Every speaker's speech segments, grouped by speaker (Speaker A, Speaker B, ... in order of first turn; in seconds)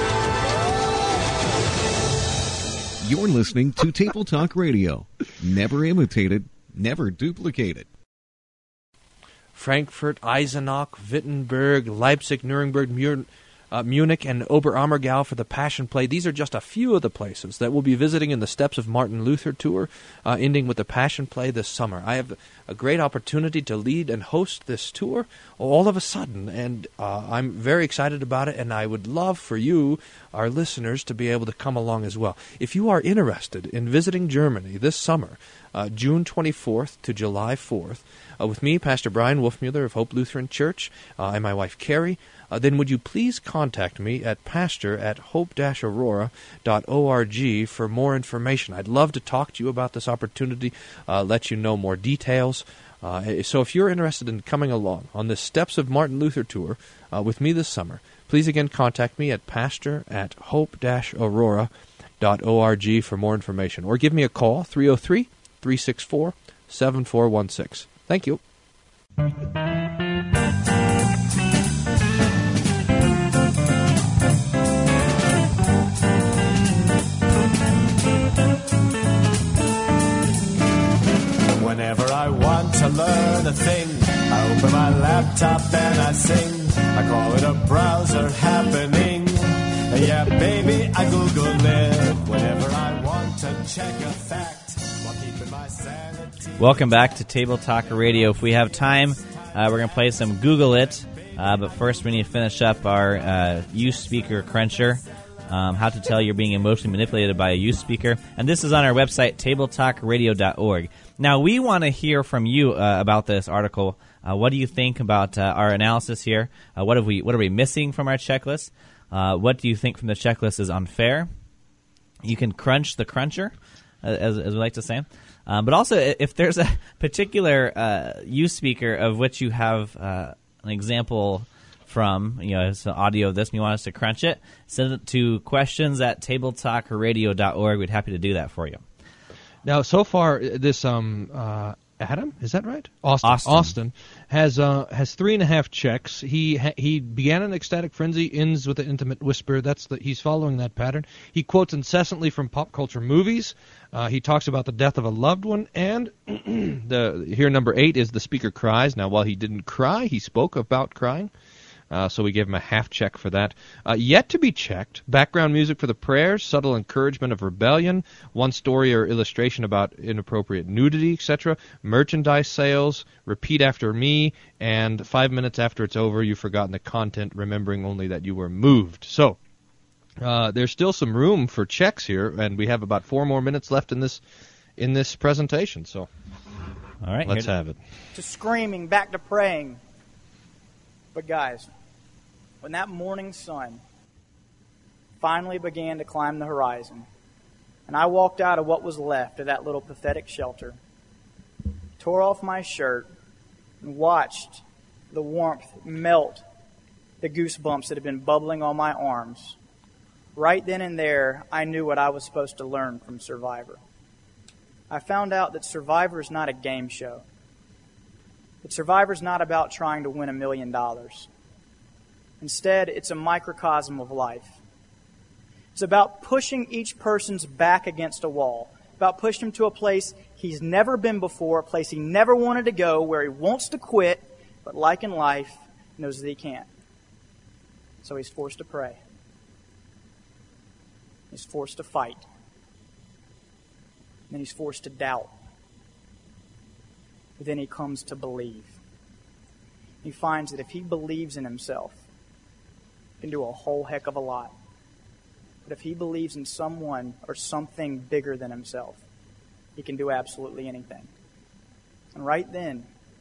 Speaker A: 3.0-7.9
Speaker B: 9.5-68.4, 139.6-161.3, 161.9-179.4, 180.2-184.2, 184.8-186.1, 187.2-187.8
Speaker C: 81.6-96.5
Speaker D: 96.6-121.3, 122.2-138.8, 143.2-143.7, 187.0-187.5
Speaker E: 188.1-189.8, 191.1-191.7, 192.6-193.8, 195.2-197.1, 197.9-200.8, 202.0-203.1, 203.8-206.4, 207.2-209.6, 210.3-213.8, 214.9-217.2, 218.6-221.3, 222.4-224.5, 225.7-236.7, 238.0-239.0, 241.3-242.2, 244.3-245.3, 247.4-248.8, 250.0-252.0, 253.2-254.5, 255.7-259.0, 259.8-261.1, 262.1-262.9